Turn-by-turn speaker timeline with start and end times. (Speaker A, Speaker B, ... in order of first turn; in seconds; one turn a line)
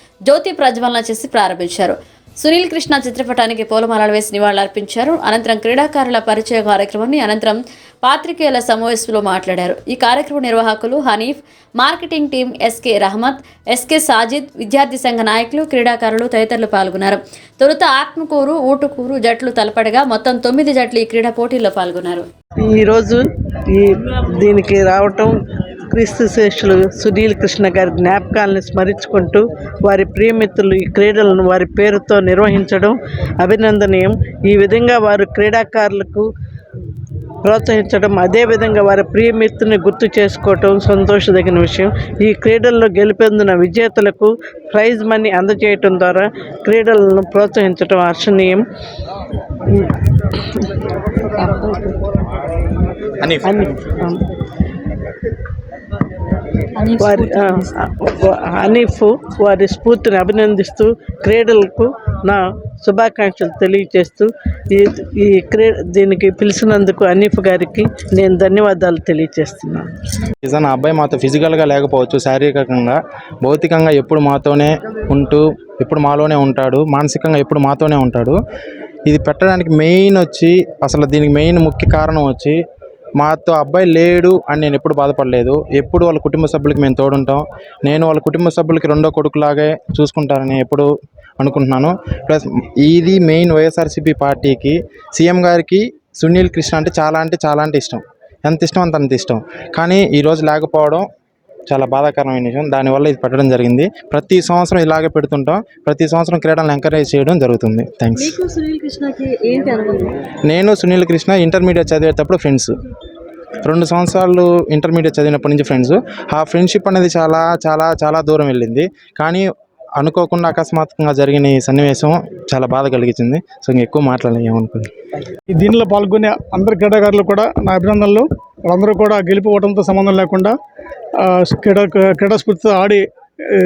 Speaker A: 0.3-22.2
Speaker B: 22.6-25.3
Speaker B: 25.9-36.3
Speaker B: 37.4-48.6
Speaker B: 49.7-52.1
Speaker C: 53.2-53.6
Speaker B: 53.4-54.2
Speaker D: 56.8-57.7
Speaker B: 57.0-69.9
Speaker C: 70.4-78.4
Speaker C: 79.1-82.6
Speaker C: 83.2-90.9
Speaker C: 91.4-101.1
Speaker C: 101.7-108.4
Speaker D: 108.2-110.1
Speaker C: 110.5-112.7
Speaker C: 113.6-124.9
Speaker E: 125.6-130.5
Speaker E: 131.3-133.0